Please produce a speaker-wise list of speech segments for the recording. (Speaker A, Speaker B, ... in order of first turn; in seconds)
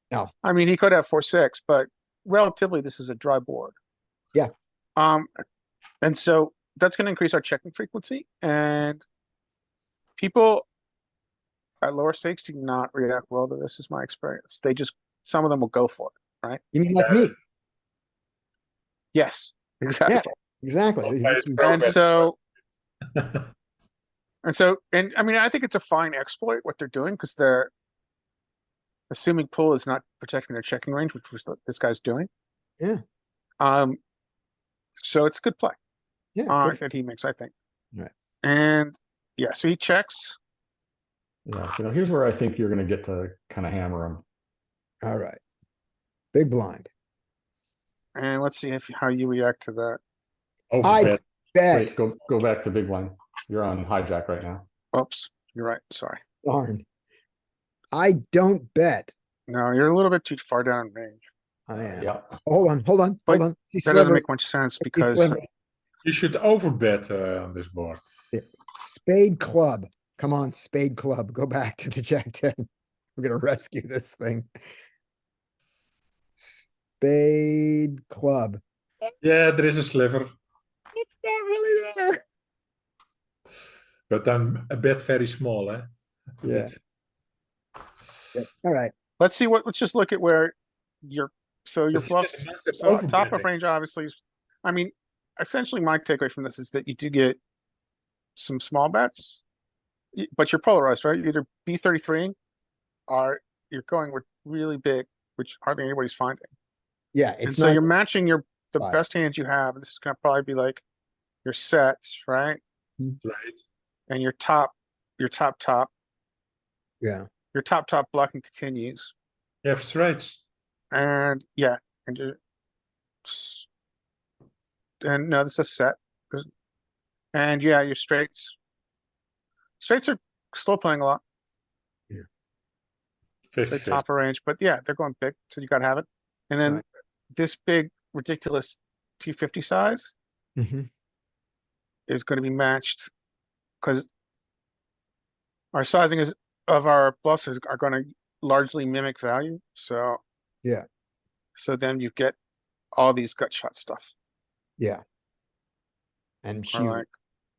Speaker A: 0.4-3.7, 5.0-5.3, 6.0-9.0, 10.2-10.7, 11.8-16.6, 19.1-20.3, 21.6-22.4, 24.4-27.7, 29.1-32.3, 33.6-34.0, 35.0-35.8, 36.5-37.5, 38.4-40.4, 48.1-50.0, 54.9-56.2, 59.5-61.2, 63.3-65.4, 89.2-97.4, 98.3-99.4, 100.2-102.3, 103.1-106.5, 107.4-110.8, 111.4-112.6, 114.1-115.9, 117.5-119.1, 120.9-122.4, 123.2-123.7, 125.0-126.5, 127.3-128.6, 129.8-131.2, 133.7-136.8, 137.3-140.1, 142.1-143.1, 143.8-144.1, 145.7-150.2, 151.6-152.3, 152.9-154.1, 156.7-157.1
Speaker B: 16.7-17.3, 20.1-21.8, 36.3-36.8, 45.0-45.4, 46.3-46.9, 50.8-52.0, 56.4-56.8, 57.9-59.1, 61.7-64.2, 64.8-65.5, 68.3-72.7, 73.2-74.6, 76.4-78.6, 80.9-82.2, 86.4-86.7, 88.3-88.9, 107.1-107.9, 117.0-117.3, 140.6-140.9, 156.4-157.0
Speaker C: 17.0-17.3, 21.0-22.4, 23.1-23.4, 50.7-51.2, 66.0-68.1, 79.2-80.3, 84.1-85.9, 86.4-86.7, 91.9-93.5, 113.2-113.6, 119.6-120.4, 133.5-134.0
Speaker D: 41.5-44.2, 51.7-54.6, 62.0-62.4